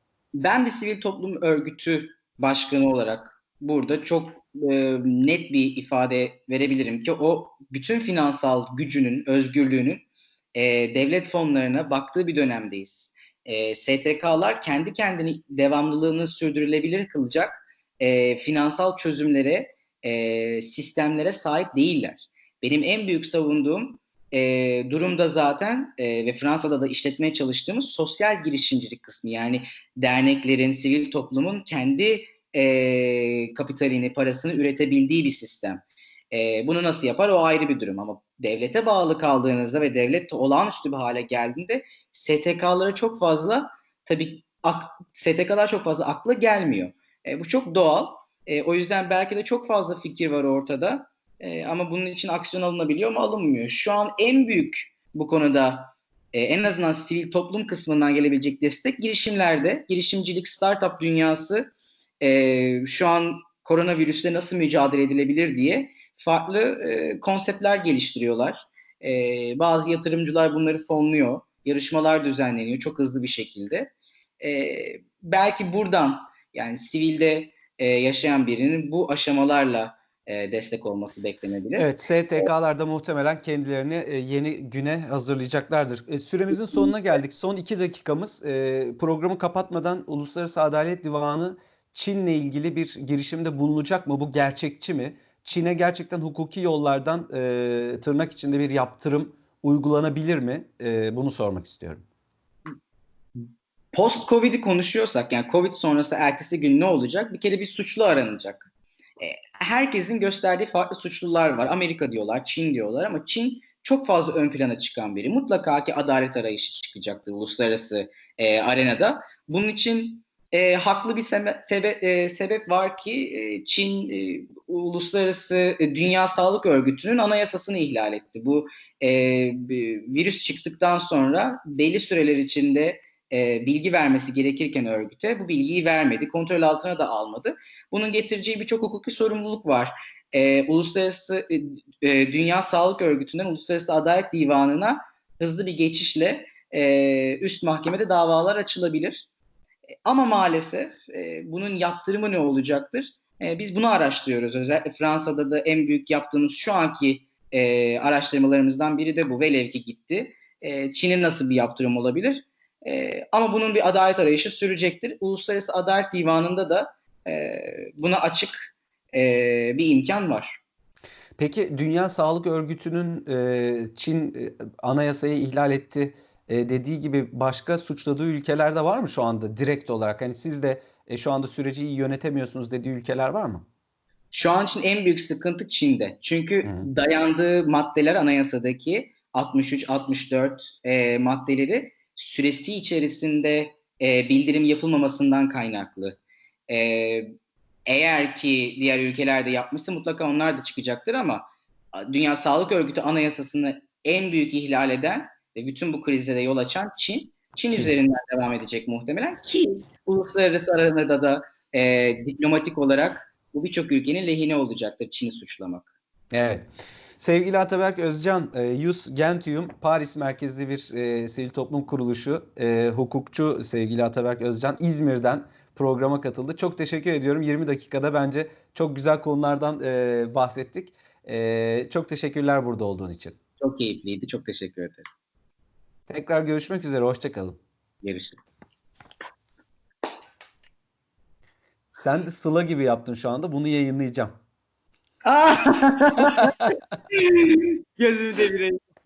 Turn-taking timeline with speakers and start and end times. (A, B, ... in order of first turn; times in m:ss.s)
0:00.4-1:22.5 A
1:21.8-1:42.0 B
1:43.9-1:48.7 A
1:49.2-2:29.3 A
2:30.0-2:50.6 A
2:51.4-3:03.6 B
3:04.3-3:16.2 A
3:16.7-3:17.3 A
3:17.9-3:35.9 A
3:36.3-3:36.7 B
3:37.2-3:53.4 B
3:53.6-3:55.0 A
3:56.1-3:57.6 B
3:58.0-3:58.4 A
4:01.9-4:04.3 B
4:05.2-4:08.8 A